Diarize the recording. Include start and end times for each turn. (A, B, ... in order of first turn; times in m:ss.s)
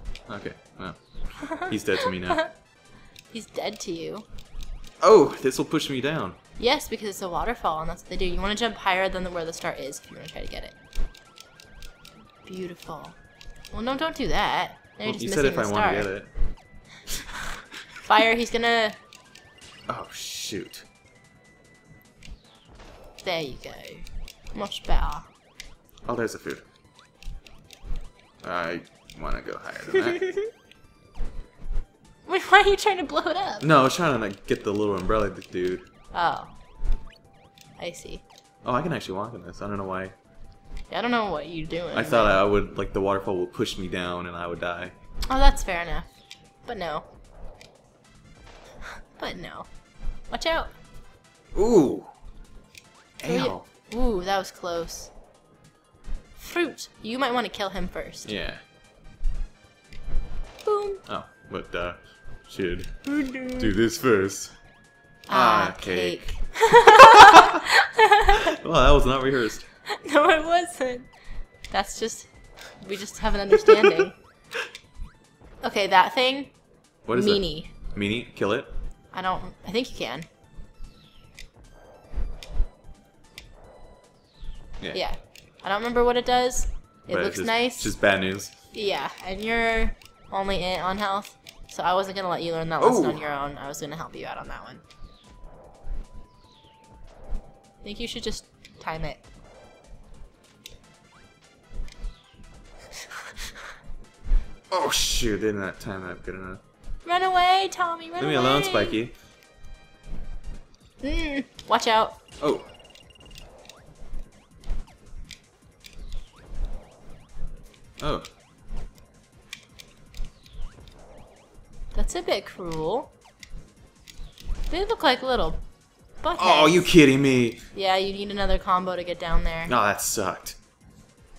0:00.3-0:02.4 A
0:01.5-0:02.5 B
0:03.3-0:04.2 B
0:05.0-0:06.4 A
0:06.6-0:10.7 B
0:12.4-0:13.2 B
0:13.7-0:16.1 B
0:15.0-0:16.3 A
0:18.0-0:19.0 B
0:19.9-0:20.8 A
0:23.2-0:25.2 B
0:26.1-0:26.6 A
0:28.4-0:30.2 A
0:30.1-0:30.5 B
0:32.2-0:33.7 B
0:33.6-0:35.8 A
0:36.1-0:36.5 B
0:37.8-0:38.2 B
0:38.6-0:40.1 A
0:40.9-0:42.4 B
0:41.9-0:44.9 A
0:45.3-0:46.1 B
0:46.6-0:47.0 B
0:49.1-0:49.7 B
0:50.3-0:50.7 B
0:51.5-0:52.1 A
0:53.2-0:53.6 A
0:53.2-0:55.1 B
0:56.4-0:58.3 B
0:58.2-0:58.6 A
1:00.6-1:01.0 B
1:01.0-1:04.6 A
1:03.1-1:03.7 B
1:05.3-1:08.5 B
1:05.3-1:07.5 A
1:08.4-1:09.6 A
1:09.9-1:11.1 B
1:11.7-1:14.2 B
1:13.7-1:14.0 A
1:15.6-1:16.5 B
1:17.0-1:18.7 A
1:17.1-1:17.7 B
1:19.1-1:20.3 B
1:24.9-1:27.9 B
1:27.1-1:28.5 A
1:28.7-1:34.8 B
1:32.8-1:33.2 A
1:37.8-1:39.2 B
1:44.7-1:46.6 A
1:47.0-1:49.0 B
1:48.2-1:49.1 A
1:51.0-1:52.2 B
1:52.4-1:52.6 A
1:58.0-1:58.2 A
2:01.9-2:03.1 B
2:04.7-2:05.6 B
2:06.2-2:06.9 B
2:06.4-2:07.6 A
2:07.7-2:09.7 B
2:09.7-2:10.6 A